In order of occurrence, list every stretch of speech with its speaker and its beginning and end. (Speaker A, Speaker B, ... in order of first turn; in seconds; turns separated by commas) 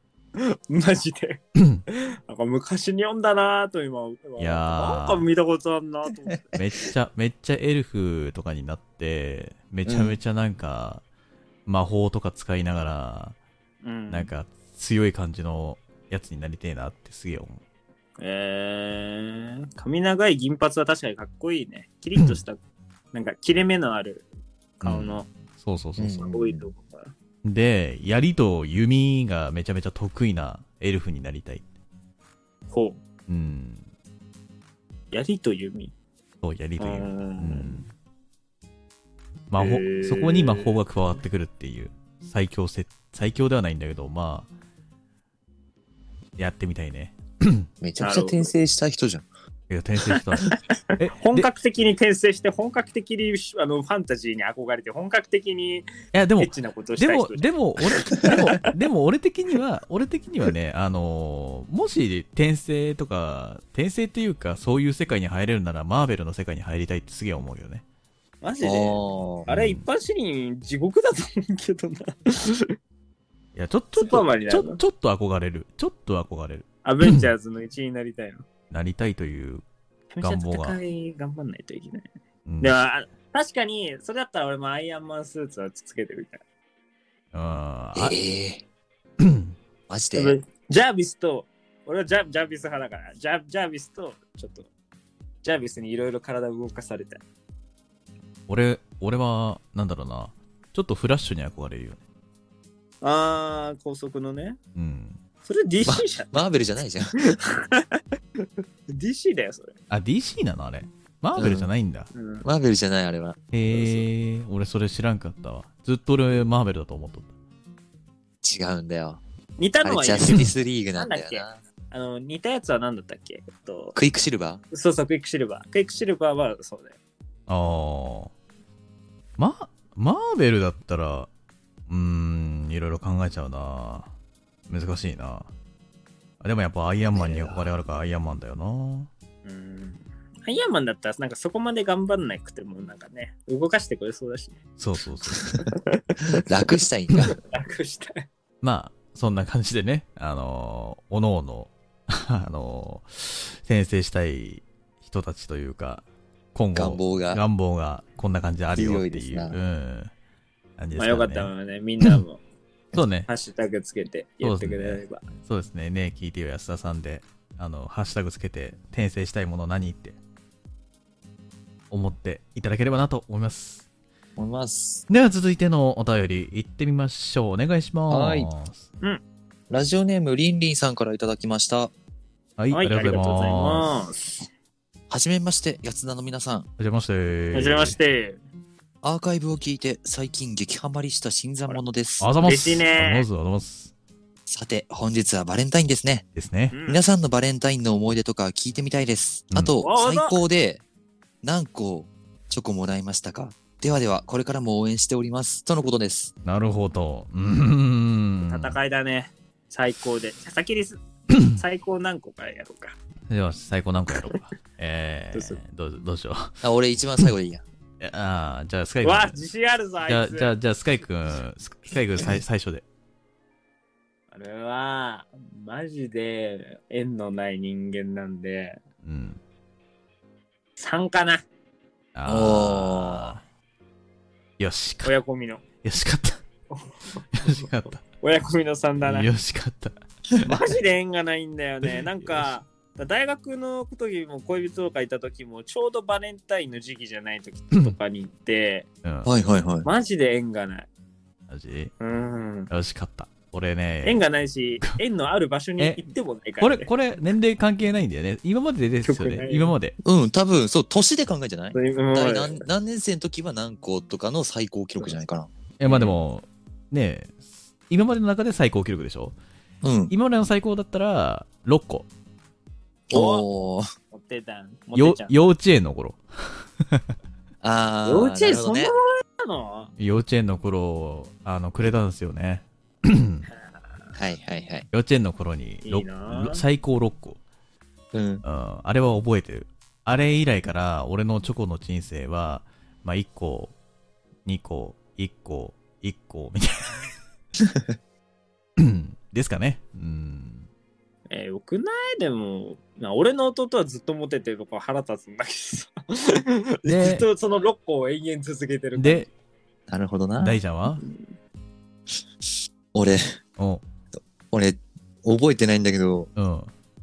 Speaker A: 0.3-6.4, Speaker B: 1.6-1.8, Speaker B: 4.4-5.2, Speaker B: 6.5-11.0, Speaker C: 9.8-10.2, Speaker B: 11.7-13.4, Speaker A: 13.8-14.3, Speaker B: 14.1-17.6, Speaker A: 18.2-22.6, Speaker B: 22.1-22.4, Speaker A: 23.1-24.2, Speaker A: 24.8-25.3, Speaker B: 24.8-26.3, Speaker C: 26.0-26.7, Speaker A: 26.2-27.1, Speaker B: 27.4-31.6, Speaker A: 32.7-33.0, Speaker B: 33.3-33.9, Speaker A: 35.1-35.9, Speaker B: 36.4-37.9, Speaker A: 36.8-37.8, Speaker B: 39.5-44.5, Speaker A: 39.6-40.7, Speaker B: 46.4-47.7, Speaker C: 47.8-49.2, Speaker A: 48.0-48.5, Speaker B: 49.7-51.5, Speaker A: 50.1-50.6, Speaker A: 51.1-55.9, Speaker B: 56.1-67.8, Speaker A: 56.4-58.7, Speaker A: 68.4-72.8, Speaker C: 68.6-69.5, Speaker B: 69.5-69.8, Speaker B: 73.5-77.3, Speaker A: 74.0-74.8, Speaker A: 76.8-78.5, Speaker B: 78.7-79.6, Speaker A: 80.1-82.0, Speaker B: 80.2-80.8, Speaker B: 82.5-82.8, Speaker A: 82.6-86.4, Speaker B: 87.3-88.2, Speaker C: 87.9-88.6, Speaker B: 89.2-89.5, Speaker C: 89.9-90.4, Speaker A: 90.1-94.7, Speaker A: 95.4-97.2, Speaker B: 98.5-102.0, Speaker A: 103.0-104.6, Speaker B: 104.7-105.2, Speaker A: 105.4-106.3, Speaker C: 105.8-107.3, Speaker A: 107.2-109.7, Speaker B: 109.9-112.1, Speaker C: 111.4-111.7, Speaker A: 112.1-112.5, Speaker C: 112.4-113.4, Speaker B: 113.5-117.3, Speaker A: 113.7-114.0, Speaker C: 118.4-119.2, Speaker A: 119.6-124.0, Speaker C: 119.8-121.6, Speaker C: 123.9-124.6, Speaker A: 124.7-126.9, Speaker B: 127.5-128.3, Speaker B: 129.4-131.3, Speaker B: 131.9-134.1, Speaker B: 134.7-135.5, Speaker B: 136.4-139.1, Speaker C: 137.1-137.7, Speaker A: 139.4-144.6, Speaker B: 144.8-145.6, Speaker A: 145.6-146.4, Speaker C: 146.4-147.3, Speaker A: 147.1-148.3, Speaker B: 148.6-160.1, Speaker C: 156.7-157.4, Speaker C: 158.7-159.6, Speaker B: 160.8-161.5, Speaker A: 160.9-162.4, Speaker B: 162.9-163.3, Speaker A: 163.3-165.2, Speaker B: 164.4-170.2, Speaker B: 171.9-173.8, Speaker C: 174.4-175.1, Speaker B: 175.1-178.8, Speaker C: 178.1-178.5, Speaker C: 179.7-181.9, Speaker B: 182.6-183.9, Speaker A: 182.7-184.5, Speaker C: 185.1-186.7, Speaker B: 186.8-187.9, Speaker A: 187.5-188.4, Speaker C: 189.0-192.3, Speaker B: 192.2-193.9, Speaker A: 192.4-193.2, Speaker C: 194.5-196.2, Speaker B: 196.3-196.7, Speaker A: 196.7-197.0, Speaker C: 196.9-200.8, Speaker B: 199.5-199.8, Speaker A: 199.8-200.4, Speaker C: 201.4-206.3, Speaker B: 206.4-208.8, Speaker A: 208.4-212.9, Speaker B: 211.3-211.6, Speaker B: 213.3-216.6, Speaker A: 215.3-215.6, Speaker C: 216.6-217.6, Speaker B: 218.0-219.4, Speaker A: 219.0-220.5, Speaker B: 220.1-222.8, Speaker A: 224.3-228.8, Speaker B: 229.0-229.4, Speaker A: 230.8-231.4, Speaker B: 232.1-233.4, Speaker C: 232.3-233.4, Speaker B: 234.6-235.1, Speaker A: 235.0-235.6, Speaker B: 235.8-236.4, Speaker A: 236.7-239.3, Speaker B: 237.3-238.0, Speaker B: 239.0-240.5, Speaker A: 240.4-248.8, Speaker B: 241.8-242.5, Speaker B: 249.0-249.3, Speaker C: 249.2-249.9, Speaker A: 249.8-250.9, Speaker B: 251.5-251.9, Speaker A: 252.0-252.7, Speaker B: 252.7-254.2, Speaker A: 254.0-256.9, Speaker B: 255.8-256.0, Speaker B: 256.6-259.9, Speaker A: 259.0-259.7, Speaker C: 260.0-266.1, Speaker A: 261.7-262.6, Speaker B: 265.8-267.4, Speaker B: 267.9-269.4, Speaker C: 269.8-270.1, Speaker B: 270.1-272.1, Speaker C: 273.1-273.9, Speaker A: 273.1-273.4, Speaker A: 274.1-275.4, Speaker B: 274.9-277.0, Speaker C: 277.6-278.9, Speaker A: 278.0-279.9, Speaker B: 280.0-283.5, Speaker C: 284.1-284.9, Speaker B: 284.9-287.4, Speaker A: 285.8-286.6, Speaker C: 288.1-288.4, Speaker B: 288.4-293.7, Speaker B: 294.4-297.1, Speaker C: 297.6-297.9, Speaker B: 298.8-300.7, Speaker A: 301.3-309.3, Speaker B: 306.8-307.3, Speaker B: 308.9-309.3, Speaker C: 309.9-310.6, Speaker B: 310.4-311.0, Speaker A: 311.0-311.3, Speaker C: 312.9-313.2, Speaker B: 313.6-313.8, Speaker C: 314.5-316.3, Speaker B: 316.4-316.7